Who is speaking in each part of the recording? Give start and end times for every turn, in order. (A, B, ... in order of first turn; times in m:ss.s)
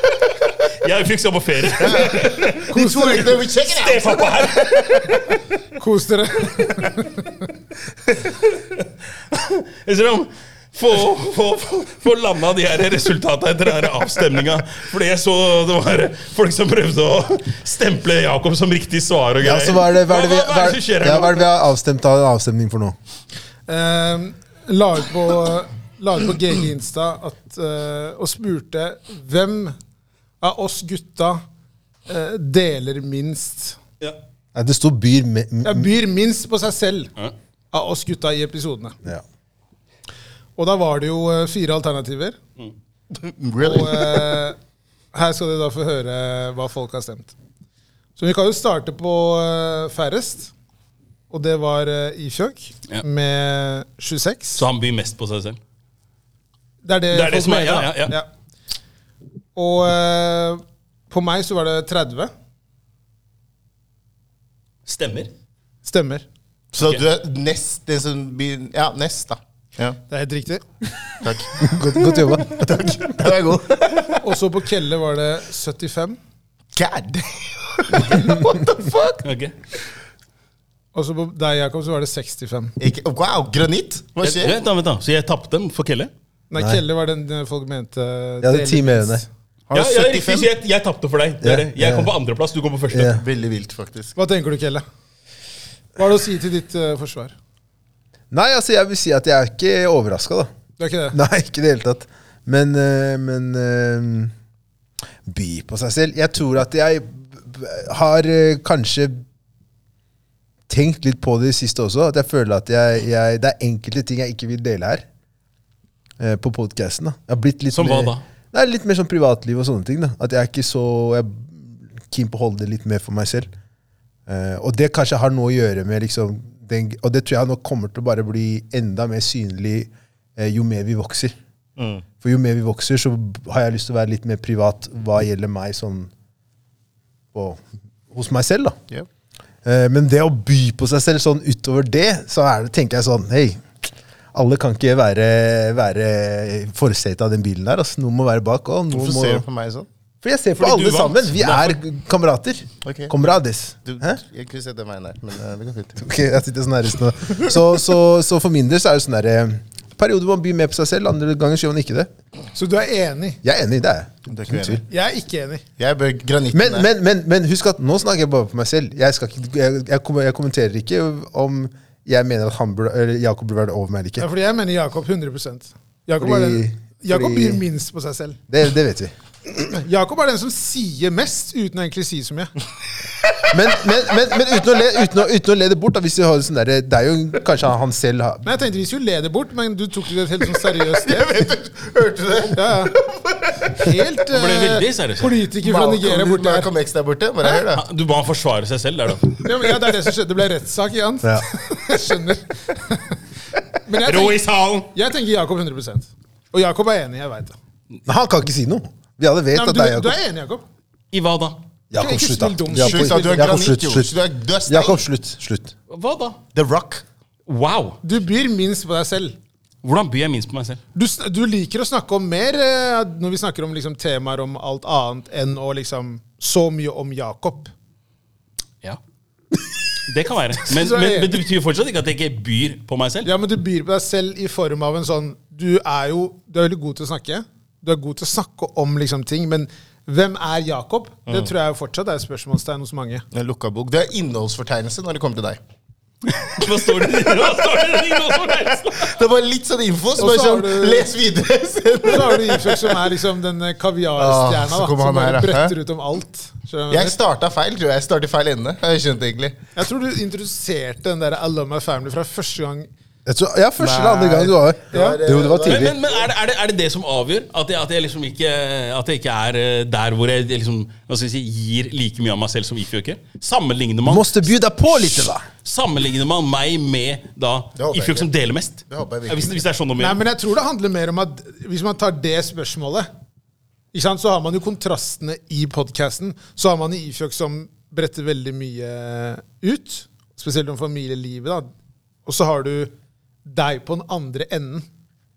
0:00.7-0:02.7 A
0:01.8-0:05.0 B
0:02.7-0:03.4 C
0:03.6-0:05.4 A
0:05.8-0:07.1 C
0:08.5-0:21.5 A
0:19.4-0:23.0 D
0:23.7-0:29.8 C
0:30.4-0:31.4 C
0:32.1-0:33.8 C
0:34.5-0:35.9 D
0:35.6-0:37.1 C
0:37.7-0:39.0 C
0:40.6-0:42.4 C
0:43.1-0:44.4 B
0:43.6-0:44.6 C
0:45.1-0:47.3 C
0:48.2-0:50.5 C
0:51.3-0:54.6 C
0:54.5-0:55.6 A
0:56.8-0:58.3 C
0:57.1-0:58.2 A
0:59.6-1:02.3 C
1:04.8-1:05.3 A
1:05.8-1:06.2 C
1:06.7-1:10.0 B
1:10.1-1:10.6 C
1:11.2-1:14.2 B
1:11.6-1:12.8 D
1:14.2-1:16.2 C
1:16.7-1:19.2 B
1:19.2-1:19.5 A
1:20.9-1:22.8 C
1:22.8-1:24.6 B
1:24.2-1:26.1 A
1:26.5-1:29.2 C
1:26.6-1:26.8 D
1:28.4-1:29.2 D
1:29.7-1:30.5 B
1:29.7-1:33.2 A
1:31.4-1:32.1 D
1:32.9-1:33.2 D
1:33.1-1:34.1 B
1:34.2-1:34.8 C
1:36.0-1:37.3 C
1:38.3-1:40.5 D
1:40.8-1:41.2 C
1:41.1-1:44.3 D
1:45.2-1:49.2 D
1:50.7-1:55.0 D
1:56.2-2:03.5 D
1:57.7-1:58.2 A
2:04.3-2:11.3 D
2:11.8-2:12.0 B
2:12.2-2:16.1 D
2:17.3-2:18.8 D
2:19.6-2:23.6 D
2:24.3-2:29.4 D
2:28.9-2:29.9 B
2:30.2-2:34.2 D
2:30.6-2:31.8 A
2:32.8-2:33.1 B
2:33.8-2:36.0 B
2:36.0-2:42.1 D
2:42.5-2:43.4 C
2:43.4-2:44.8 D
2:44.3-2:44.8 B
2:44.9-2:45.6 C
2:45.8-2:46.9 B
2:46.5-2:54.3 D
2:54.2-2:58.4 C
2:56.2-2:57.6 D
2:58.5-2:59.1 D
2:59.6-3:02.5 C
3:03.5-3:08.4 D
3:08.4-3:11.3 C
3:11.0-3:14.0 B
3:12.5-3:12.9 C
3:13.7-3:16.7 C
3:14.3-3:15.4 A
3:15.6-3:17.8 B
3:17.4-3:19.7 A
3:19.4-3:23.2 C
3:23.8-3:27.6 C
3:24.0-3:24.9 A
3:28.0-3:30.2 D
3:29.5-3:30.6 C
3:31.1-3:31.6 A
3:31.9-3:34.1 D
3:31.9-3:33.6 C
3:32.7-3:35.1 B
3:34.7-3:35.7 D
3:35.9-3:36.4 A
3:36.5-3:37.0 B
3:37.5-3:38.0 A
3:38.0-3:39.4 C
3:39.8-3:40.8 A
3:40.9-3:47.7 C
3:50.0-3:53.3 A
3:50.7-3:51.4 C
3:53.2-4:03.2 C
4:03.3-4:05.6 B
4:06.3-4:09.2 A
4:08.9-4:13.0 B
4:10.2-4:11.1 C
4:12.0-4:17.2 C
4:14.2-4:15.7 B
4:16.9-4:19.6 B
4:19.8-4:22.9 C
4:23.2-4:26.0 D
4:23.8-4:26.3 B
4:24.9-4:25.2 C
4:25.6-4:40.2 A
4:34.0-4:35.4 D
4:37.8-4:38.3 B
4:38.9-4:39.6 B
4:40.0-4:43.1 C
4:43.9-4:51.7 C
4:52.2-4:52.9 C
4:53.4-4:54.8 C